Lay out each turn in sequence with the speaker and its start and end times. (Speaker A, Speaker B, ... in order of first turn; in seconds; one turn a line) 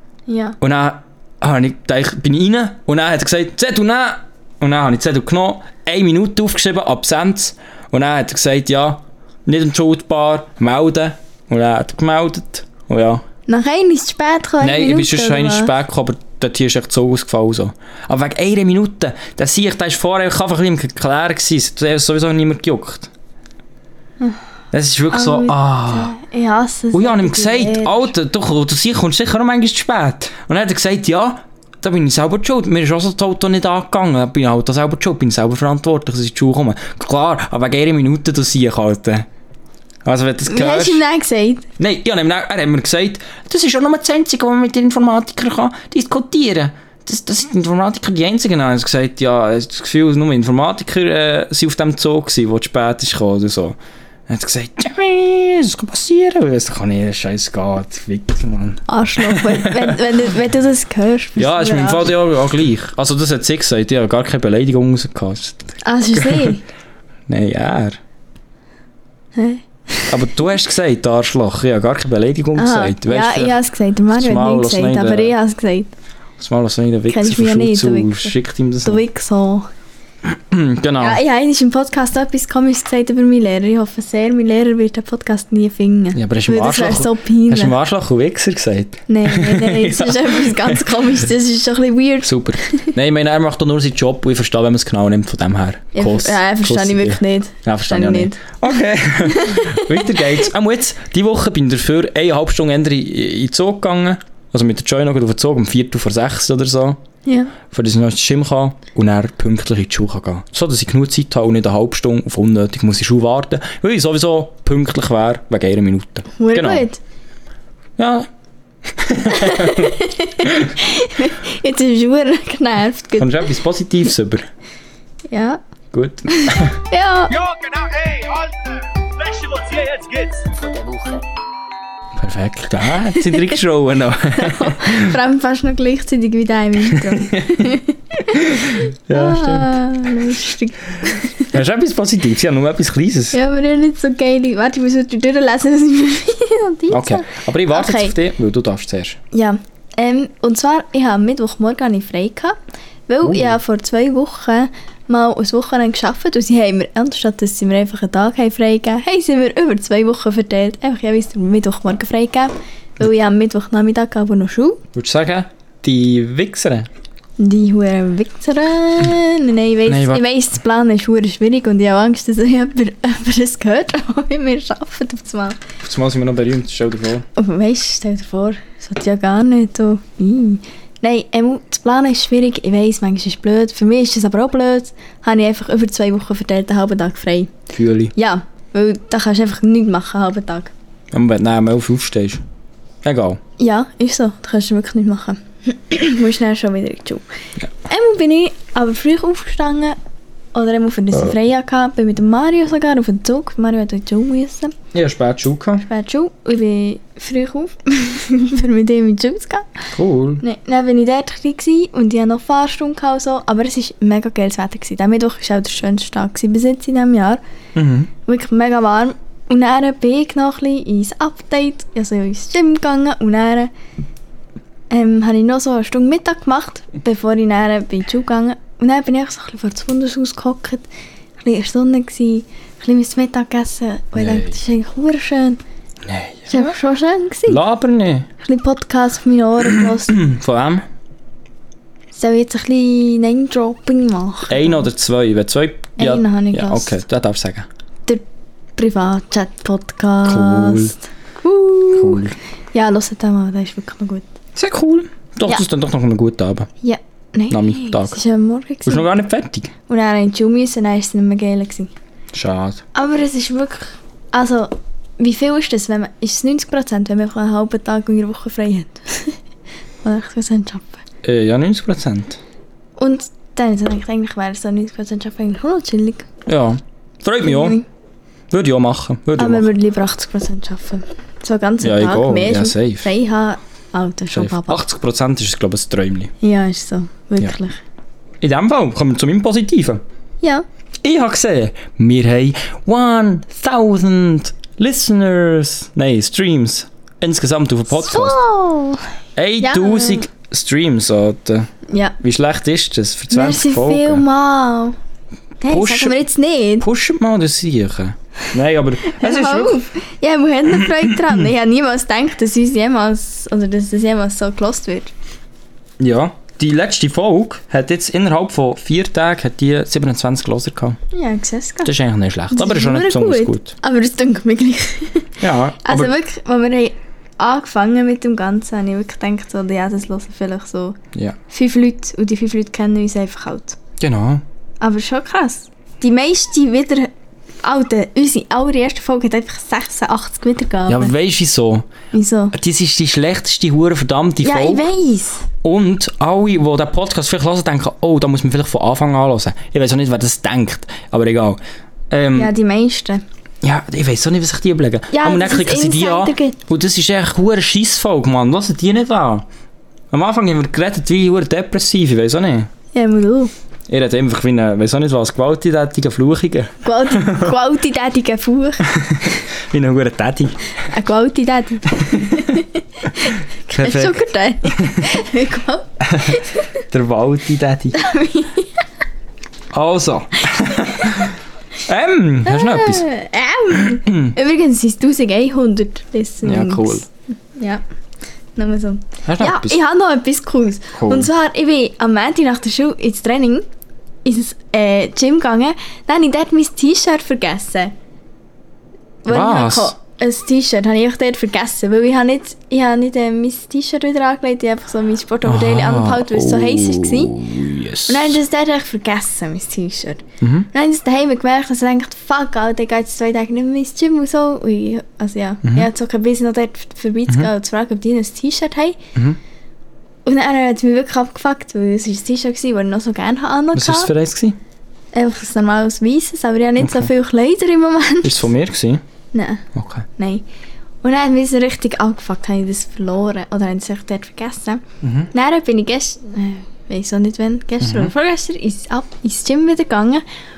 Speaker A: 0.3-0.6
Speaker B: 0.6-13.2
Speaker A: 13.5-15.7
Speaker B: 14.6-23.1
Speaker B: 24.7-26.1
Speaker A: 25.1-28.1
Speaker B: 26.9-39.3
Speaker B: 40.0-41.0
Speaker A: 40.5-41.7
Speaker B: 41.8-53.8
Speaker B: 54.3-60.0
Speaker A: 58.9-62.1
Speaker B: 61.4-66.6
Speaker A: 65.8-66.6
Speaker B: 67.3-68.0
Speaker A: 69.3-70.2
Speaker B: 70.1-73.6
Speaker A: 72.6-75.9
Speaker B: 74.1-75.4
Speaker B: 76.4-79.0
Speaker A: 77.1-79.7
Speaker B: 80.2-81.2
Speaker A: 81.0-87.7
Speaker B: 86.1-91.0
Speaker A: 89.1-92.9
Speaker B: 92.2-107.0
Speaker A: 96.0-98.5
Speaker A: 99.2-100.2
Speaker A: 107.3-107.5
Speaker B: 107.7-116.9
Speaker A: 116.4-117.0
Speaker B: 118.0-118.3
Speaker B: 118.9-120.7
Speaker A: 119.3-123.5
Speaker B: 123.2-124.5
Speaker A: 125.3-125.6
Speaker B: 125.9-126.8
Speaker A: 126.3-127.4
Speaker C: 127.5-131.2
Speaker B: 132.2-135.2
Speaker A: 133.2-133.5
Speaker A: 134.4-141.6
Speaker B: 136.9-137.8
Speaker B: 138.3-139.8
Speaker B: 141.5-143.4
Speaker A: 143.3-148.2
Speaker B: 146.9-149.2
Speaker A: 149.3-152.6
Speaker A: 153.1-164.8
Speaker B: 153.2-153.6
Speaker B: 164.9-166.9
Speaker A: 167.4-175.6
Speaker B: 169.9-170.2
Speaker B: 175.8-177.3
Speaker A: 177.4-187.5
Speaker B: 187.7-188.1
Speaker A: 188.2-190.7
Speaker B: 191.1-192.4
Speaker B: 193.0-193.4
Speaker A: 193.6-197.2
Speaker A: 197.9-200.0
Speaker A: 200.5-204.8
Speaker B: 204.9-205.9
Speaker A: 205.9-209.8
Speaker B: 209.9-210.4
Speaker A: 210.4-217.4
Speaker B: 217.8-218.1
Speaker A: 218.3-223.7
Speaker A: 224.9-230.9
Speaker A: 231.4-235.6
Speaker B: 234.2-234.6
Speaker B: 236.1-236.8
Speaker A: 236.5-237.6
Speaker B: 237.5-238.3
Speaker A: 238.4-240.2
Speaker B: 239.6-240.8
Speaker A: 242.1-244.9
Speaker B: 244.5-247.7
Speaker A: 246.0-246.9
Speaker A: 248.8-254.2
Speaker B: 250.2-250.9
Speaker B: 251.9-252.4
Speaker B: 254.6-256.7
Speaker A: 256.8-259.1
Speaker B: 257.5-258.2
Speaker B: 258.9-259.7
Speaker A: 259.9-261.9
Speaker B: 262.3-262.8
Speaker A: 262.9-269.4
Speaker A: 270.0-271.0
Speaker B: 271.2-272.4
Speaker A: 273.0-276.3
Speaker B: 276.5-277.8
Speaker A: 277.4-277.9
Speaker B: 278.5-279.7
Speaker A: 279.4-284.8
Speaker B: 281.8-283.1
Speaker B: 284.3-286.3
Speaker A: 286.4-287.8
Speaker B: 288.4-290.0
Speaker B: 291.0-298.4
Speaker A: 297.9-299.1
Speaker B: 299.4-301.7
Speaker A: 299.6-300.3
Speaker A: 301.9-302.2
Speaker B: 302.2-304.2
Speaker A: 303.3-305.0
Speaker A: 305.6-306.9
Speaker B: 305.7-306.2
Speaker B: 306.8-309.8
Speaker A: 309.0-315.1
Speaker B: 310.8-311.4
Speaker B: 316.0-321.0
Speaker A: 321.1-321.9
Speaker B: 321.9-323.7
Speaker A: 322.5-331.0
Speaker B: 325.4-326.1
Speaker A: 331.5-333.8
Speaker B: 334.0-334.4
Speaker A: 334.8-337.1
Speaker A: 337.6-341.1
Speaker B: 340.9-341.9
Speaker A: 342.1-342.6
Speaker B: 342.5-344.9
Speaker A: 344.4-345.4
Speaker B: 345.6-351.6
Speaker B: 352.1-352.5
Speaker A: 352.4-353.2
Speaker B: 353.6-359.5
Speaker A: 355.1-356.6
Speaker B: 360.1-362.7
Speaker A: 362.9-363.5
Speaker B: 363.9-367.5
Speaker A: 366.8-368.9
Speaker B: 368.9-370.6
Speaker A: 370.8-376.6
Speaker B: 371.9-372.6
Speaker B: 373.7-375.1
Speaker B: 376.0-378.0
Speaker A: 377.9-378.8
Speaker B: 379.7-383.1
Speaker A: 382.4-387.8
Speaker B: 383.7-384.4
Speaker B: 386.4-387.1
Speaker A: 388.6-393.6
Speaker B: 389.3-389.8
Speaker B: 391.0-391.3
Speaker A: 394.2-397.9
Speaker A: 399.2-407.4
Speaker B: 399.3-399.9
Speaker B: 405.4-408.4
Speaker A: 408.1-419.0
Speaker B: 410.4-410.7
Speaker B: 415.6-415.9
Speaker A: 420.2-424.1
Speaker B: 423.7-424.6
Speaker A: 425.1-428.5
Speaker B: 426.8-427.1
Speaker B: 428.2-429.0
Speaker A: 429.3-429.6
Speaker B: 429.7-430.1
Speaker A: 430.2-430.4
Speaker A: 431.0-440.2
Speaker B: 435.0-435.3
Speaker B: 437.8-438.1